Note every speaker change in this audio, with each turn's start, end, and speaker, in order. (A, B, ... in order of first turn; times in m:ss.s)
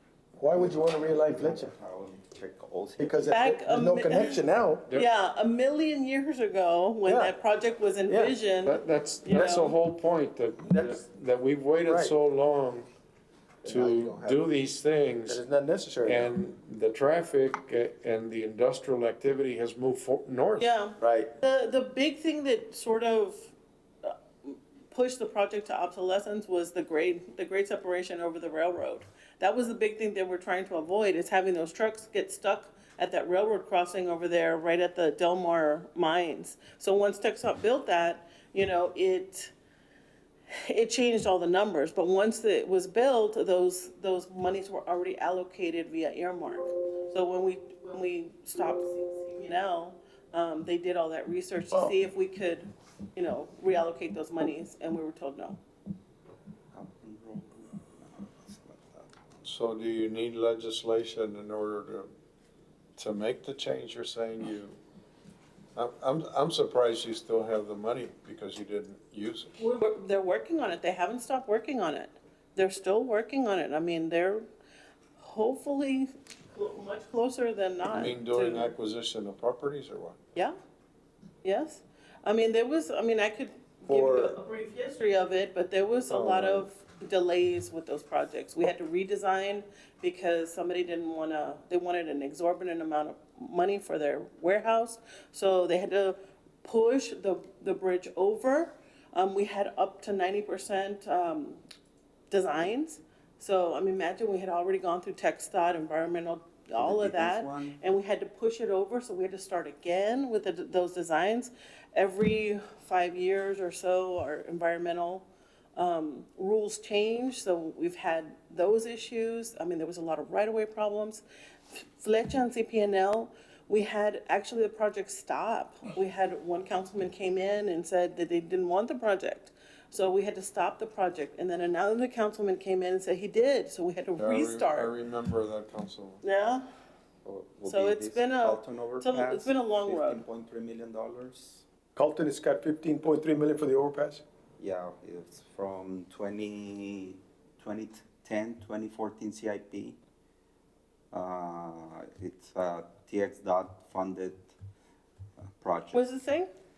0:00.4-0:01.7 A
0:00.6-0:03.4 B
0:03.0-0:04.9 A
0:03.3-0:09.8 C
0:07.0-0:07.4 A
0:08.1-0:08.4 A
0:08.6-0:12.9 D
0:09.3-0:09.6 A
0:10.6-0:11.0 A
0:11.8-0:12.2 A
0:13.6-0:14.4 A
0:13.6-0:15.4 D
0:15.3-0:16.3 A
0:16.0-0:20.8 D
0:20.6-0:23.5 C
0:21.0-0:21.3 A
0:24.0-0:39.5 C
0:40.5-0:55.6 C
0:56.7-0:59.2 B
0:59.4-1:02.1 D
1:03.0-1:04.8 D
1:05.8-1:09.5 D
1:09.6-1:14.4 C
1:15.2-1:18.7 C
1:17.9-1:20.2 D
1:21.4-1:41.6 C
1:23.9-1:24.4 A
1:26.1-1:26.7 D
1:42.3-2:01.2 C
1:46.8-1:47.8 B
2:01.7-2:14.9 C
2:14.2-2:16.2 D
2:16.2-2:16.7 C
2:17.2-2:21.6 B
2:17.7-2:20.2 C
2:22.0-2:24.2 A
2:24.6-2:30.0 B
2:31.1-2:34.5 B
2:35.4-2:36.0 B
2:35.9-2:36.5 C